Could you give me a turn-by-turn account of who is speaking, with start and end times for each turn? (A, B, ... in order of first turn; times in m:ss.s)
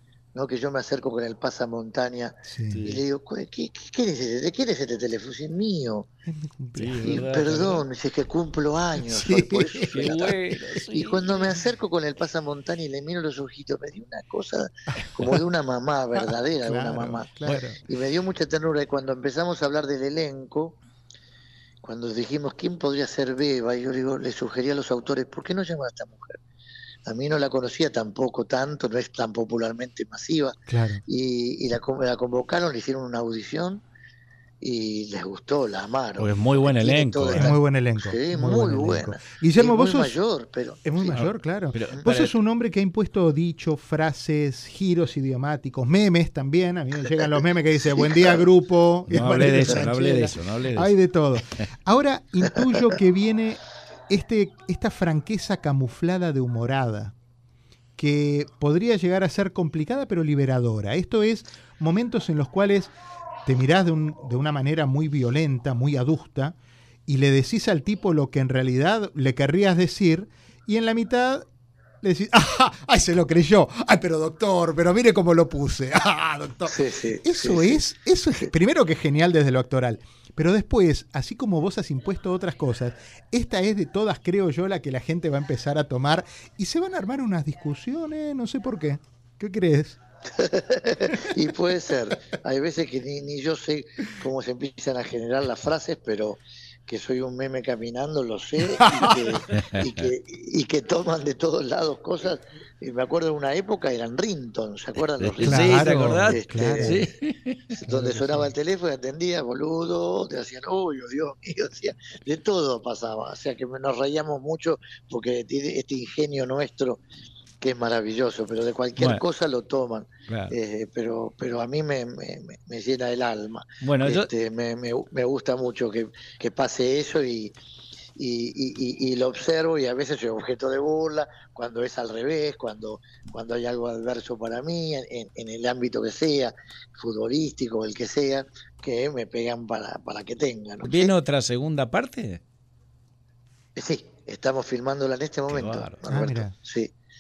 0:00.3-0:06.1 A
0:02.5-0:02.9 B
0:02.7-0:03.0 C
0:06.3-0:07.3 B
0:06.8-0:07.8 C
0:07.0-0:10.4 A
0:09.0-0:10.1 B
0:09.9-0:11.6 C
0:10.9-0:20.8 A
0:16.2-0:17.8 B
0:21.8-0:26.4 A
0:27.1-0:33.8 A
0:30.7-0:31.0 B
0:34.6-0:41.2 A
0:36.2-0:37.5 C
0:37.3-0:40.2 B
0:40.8-0:57.1 B
0:41.1-0:42.3 C
0:47.9-0:48.4 A
0:49.1-0:51.0 C
0:52.5-0:52.8 A
0:58.0-1:02.9 B
1:03.5-1:06.6 B
1:07.1-1:11.5 B
1:12.0-1:30.0 B
1:16.7-1:17.8 A
1:30.4-1:47.0 A
1:38.8-1:39.2 B
1:39.5-1:40.0 C
1:45.2-1:47.7 C
1:45.4-1:47.0 B
1:47.8-1:57.0 A
1:47.9-1:48.5 B
1:57.6-2:07.5 A
2:00.3-2:00.6 C
2:03.8-2:04.3 C
2:08.2-2:21.1 A
2:20.8-2:22.4 C
2:23.8-2:26.9 A
2:25.5-2:26.0 C
2:26.1-2:26.5 B